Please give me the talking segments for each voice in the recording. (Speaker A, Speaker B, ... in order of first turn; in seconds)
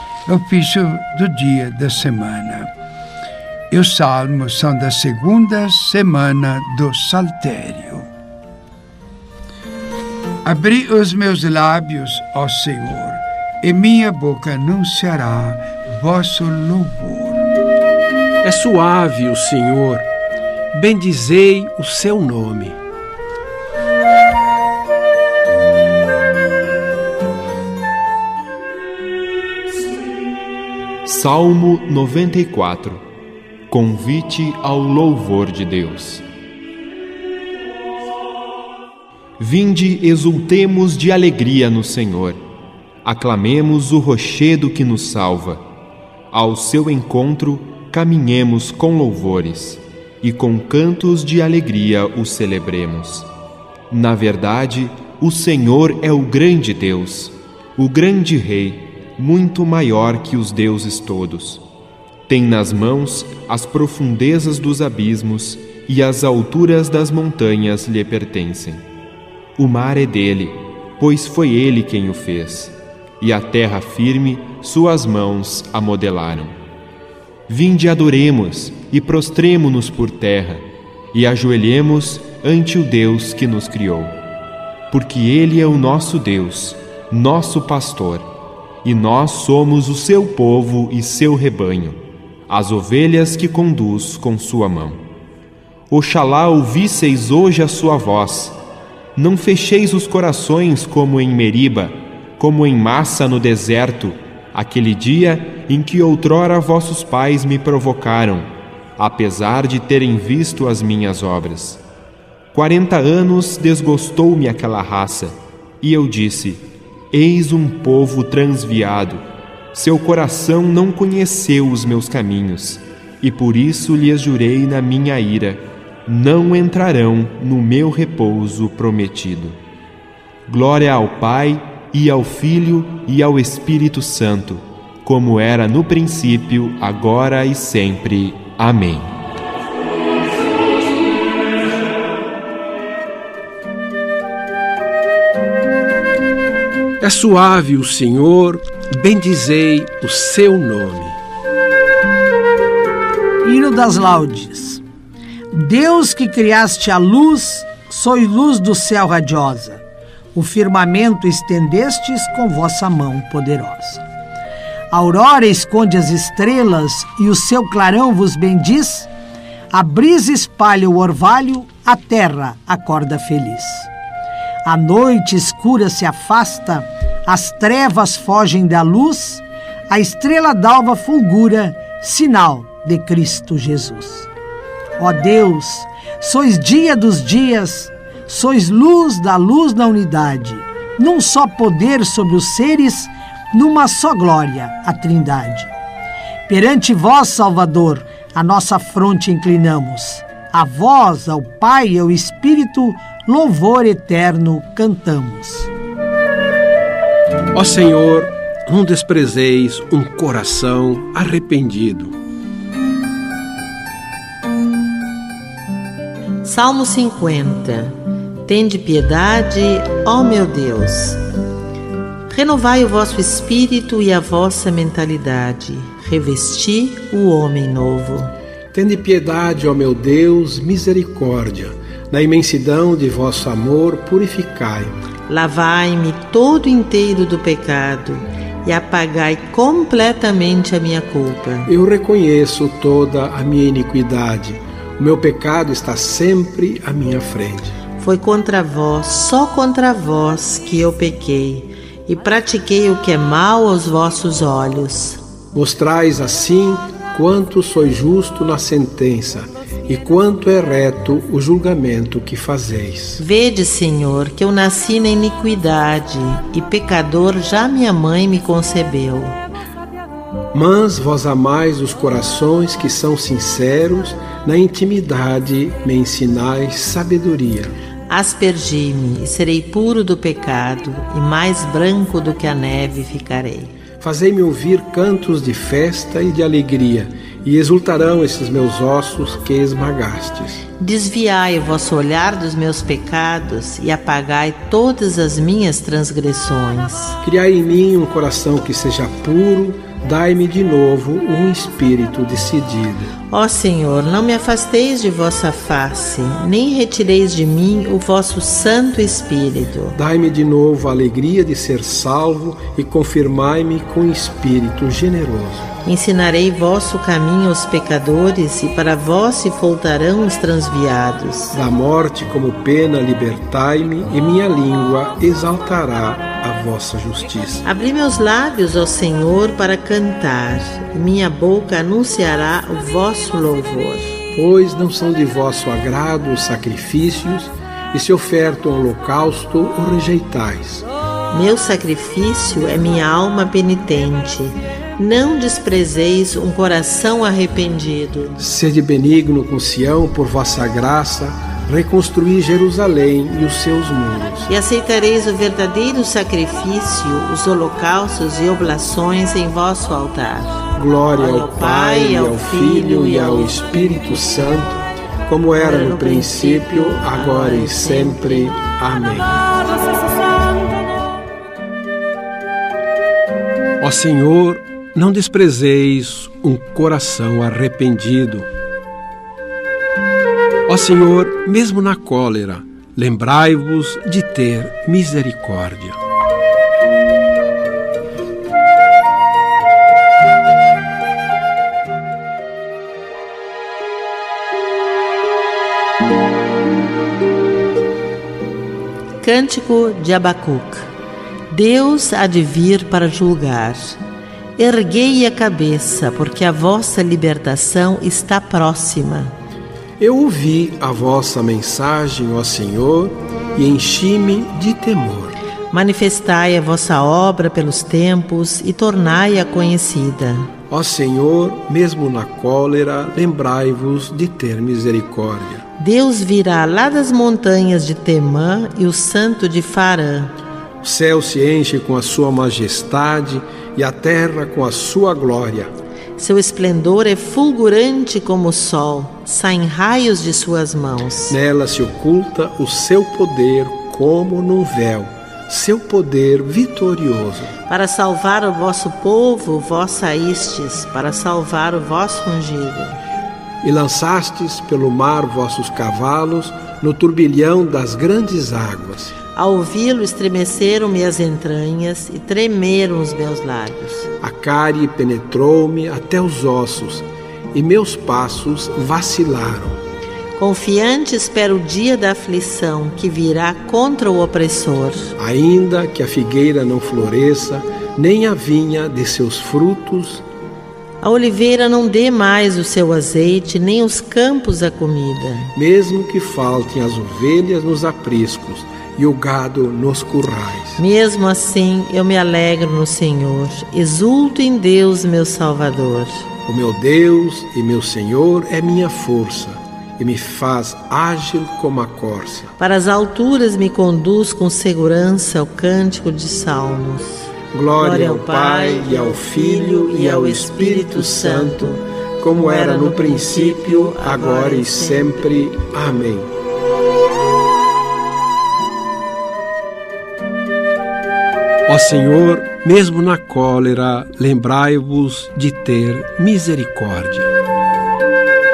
Speaker A: 0.3-2.7, 3.7-8.1, 10.4-17.5
Speaker B: 18.4-20.1, 20.7-22.8, 147.0-151.2, 207.5-212.2, 228.7-235.0, 241.7-247.8, 255.5-263.2, 270.5-277.8, 284.0-290.6, 297.2-303.1, 309.9-315.7, 321.5-327.6, 334.3-340.9, 348.4-354.5, 360.8-369.4, 373.8-378.5, 380.7-386.0, 410.0-415.4, 420.7-425.6, 430.8-435.7, 441.3-447.5, 453.6-459.1, 464.2-469.8, 475.2-480.2, 485.6-490.8, 496.5-502.5, 507.5-516.3, 521.7-527.3
Speaker C: 31.1-33.0, 33.7-36.2, 39.4-42.4, 43.0-45.6, 46.3-53.3, 53.9-61.6, 62.3-68.8, 69.6-76.5, 77.5-84.2, 84.9-88.3, 88.8-95.0, 95.9-98.6, 99.2-111.8, 112.5-129.6, 130.5-139.1
Speaker D: 153.4-154.8, 155.5-159.8, 160.3-164.1, 164.9-169.1, 169.7-173.9, 174.6-184.3, 185.0-195.7, 196.5-205.7
Speaker E: 216.4-221.2, 222.3-228.3, 235.3-241.7, 248.0-255.2, 263.2-269.4, 278.1-283.7, 290.8-297.2, 303.3-310.0, 315.9-321.6, 327.6-334.2, 341.3-348.4, 354.5-360.7, 361.2-364.0, 365.6-368.6, 399.2-400.9, 401.5-404.0, 404.6-409.4, 415.7-420.5, 425.8-430.4, 436.2-441.4, 447.7-453.0, 459.3-464.1, 470.4-475.1, 481.0-485.5, 490.8-496.3, 502.6-511.8, 512.4-515.5